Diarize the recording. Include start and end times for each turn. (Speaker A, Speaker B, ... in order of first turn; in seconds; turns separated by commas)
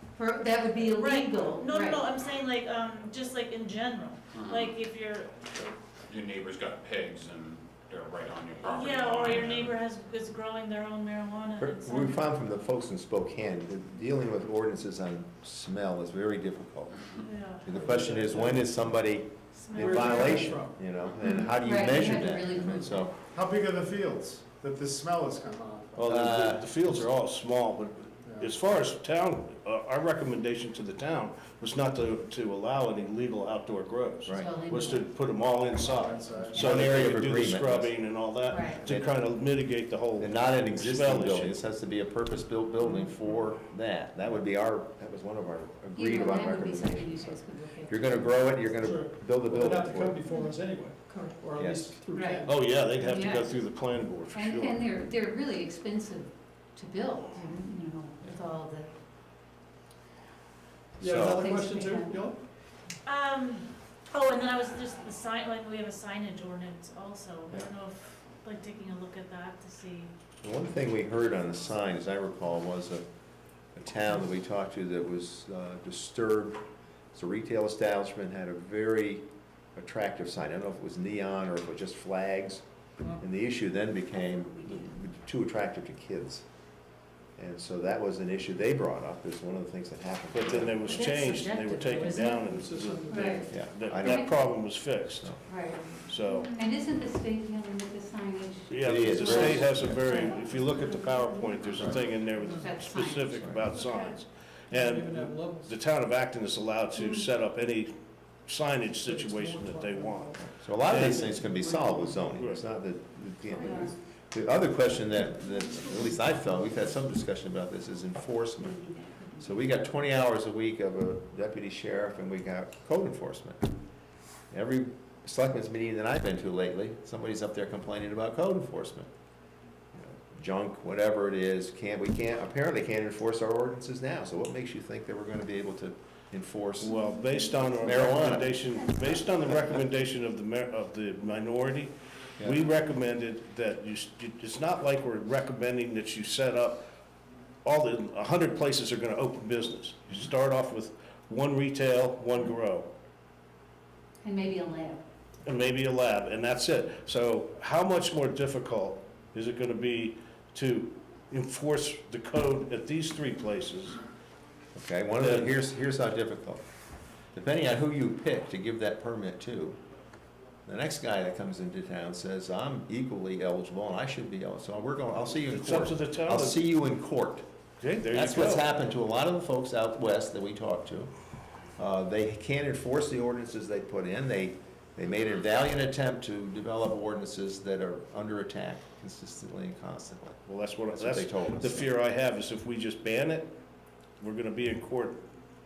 Speaker A: 0.1-2.0, Speaker B: 0.9-5.8, Speaker C: 4.3-4.7, Speaker C: 6.1-9.8, Speaker B: 8.6-12.2, Speaker D: 11.6-17.0, Speaker B: 17.2-17.6, Speaker D: 17.6-23.1, Speaker E: 17.7-18.6, Speaker B: 19.5-20.5, Speaker E: 19.7-20.8, Speaker A: 21.4-23.1, Speaker E: 23.3-26.2, Speaker F: 25.9-41.5, Speaker D: 26.1-26.7, Speaker E: 28.2-28.5, Speaker D: 34.2-34.5, Speaker A: 34.3-35.0, Speaker E: 35.8-36.8, Speaker D: 36.5-37.9, Speaker A: 38.5-38.8, Speaker D: 40.2-50.2, Speaker A: 45.9-48.2, Speaker E: 48.8-52.5, Speaker D: 51.5-52.0, Speaker A: 52.1-53.5, Speaker F: 52.4-54.8, Speaker A: 54.3-58.9, Speaker D: 61.0-61.4, Speaker E: 61.0-62.4, Speaker A: 61.2-62.2, Speaker B: 63.0-70.1, Speaker D: 70.4-73.0, Speaker D: 73.7-76.6, Speaker D: 77.1-79.2, Speaker D: 79.8-82.6, Speaker D: 83.2-86.4, Speaker D: 87.4-91.1, Speaker F: 90.3-95.4, Speaker A: 91.0-92.0, Speaker E: 91.9-93.5, Speaker A: 93.1-94.3, Speaker D: 93.5-94.3, Speaker D: 95.0-95.4, Speaker A: 95.5-101.8, Speaker F: 96.0-96.5, Speaker B: 96.3-96.7, Speaker F: 98.7-107.9, Speaker D: 98.8-100.1, Speaker A: 102.4-103.6, Speaker E: 104.7-105.7, Speaker F: 108.5-111.5, Speaker E: 109.0-110.4, Speaker D: 110.6-118.8, Speaker F: 112.2-112.6, Speaker A: 113.6-113.9, Speaker A: 118.6-119.6, Speaker D: 119.4-123.6, Speaker D: 124.5-129.1, Speaker D: 129.9-136.9, Speaker F: 136.8-146.8, Speaker D: 137.7-138.5, Speaker A: 138.4-139.2, Speaker F: 147.6-152.9, Speaker A: 154.2-155.0, Speaker F: 155.4-164.0, Speaker D: 164.7-166.6, Speaker F: 165.2-165.6, Speaker D: 167.3-169.8, Speaker D: 170.7-177.4, Speaker F: 175.5-176.6, Speaker F: 177.8-178.7, Speaker D: 178.1-181.1, Speaker D: 181.8-191.9, Speaker F: 190.4-193.5, Speaker F: 194.2-195.2